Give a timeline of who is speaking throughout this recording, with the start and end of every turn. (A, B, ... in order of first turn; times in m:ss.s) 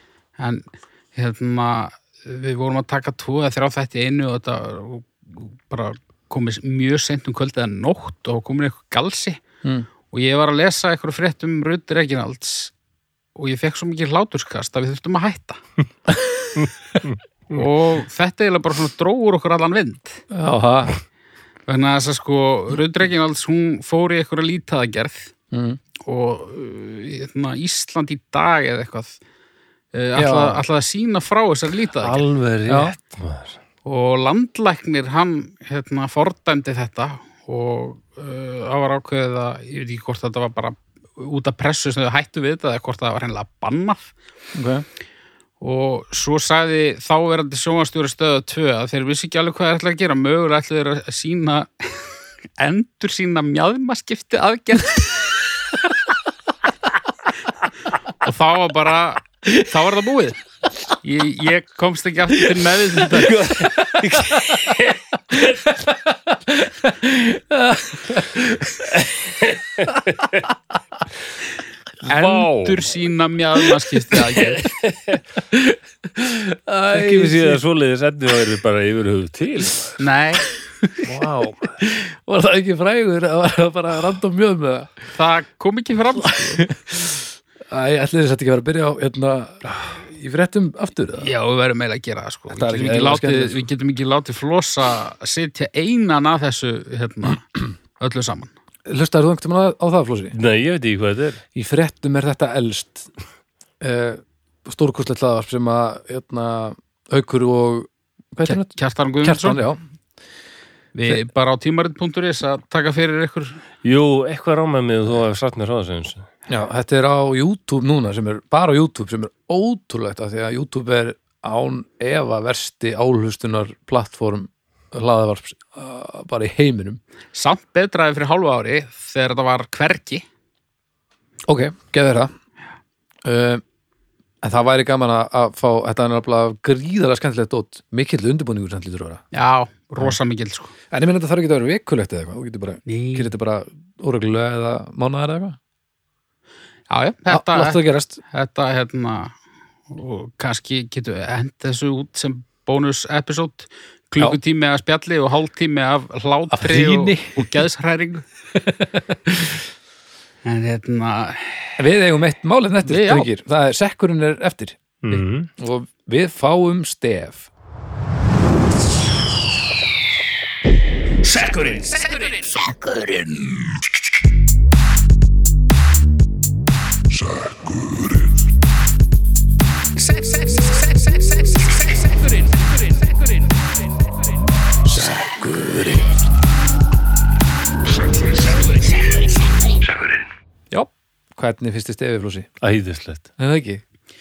0:00.4-0:09.4 A
0:10.1-0:12.7 A
0:13.4-0:15.6 A
0:16.6-0:17.6 B
0:17.5-0:20.2 A
0:20.3-0:21.0 C
0:21.7-0:25.3 A
0:25.5-0:25.8 C
0:26.0-0:29.2 A
0:29.9-0:32.2 A
0:30.2-0:30.6 C
0:32.0-0:33.6 B
0:32.7-0:33.0 C
0:33.8-0:44.1 A
0:44.6-0:44.8 C
0:45.6-0:55.3 A
0:58.2-1:00.4 A
1:01.0-1:03.4 A
1:03.2-1:04.8 C
1:03.3-1:05.0 B
1:05.3-1:09.0 C
1:09.4-1:10.0 B
1:12.0-1:14.7 A
1:12.1-1:12.8 B
1:14.6-1:15.2 B
1:15.5-1:17.6 C
1:16.9-1:20.0 B
1:20.0-1:20.5 A
1:21.0-1:21.8 B
1:21.8-1:24.9 C
1:25.1-1:26.6 A
1:26.2-1:31.3 C
1:31.2-1:37.5 A
1:32.5-1:33.6 C
1:38.0-1:38.5 A
1:38.9-1:40.4 C
1:40.3-1:41.4 B
1:41.6-1:43.1 C
1:43.8-1:48.7 C
1:48.4-1:49.6 A
1:49.2-1:49.8 C
1:51.0-1:53.6 A
1:53.8-1:56.3 B
1:56.5-2:07.0 C
2:07.3-2:10.2 A
2:11.5-2:12.3 C
2:13.2-2:13.6 C
2:14.4-2:19.2 C
2:19.3-2:20.7 A
2:20.9-2:25.6 C
2:22.9-2:23.3 A
2:26.9-2:29.4 A
2:27.3-2:28.2 C
2:29.9-2:38.3 A
2:36.5-2:37.6 C
2:38.6-2:39.6 C
2:40.4-2:41.8 A
2:41.8-2:47.5 C
2:42.8-2:43.3 A
2:45.0-2:45.5 B
2:51.3-2:51.9 C
2:51.9-2:52.6 A
3:00.1-3:01.0 A
3:04.9-3:06.1 C
3:11.4-3:12.5 C
3:12.6-3:13.3 B
3:13.4-3:13.8 C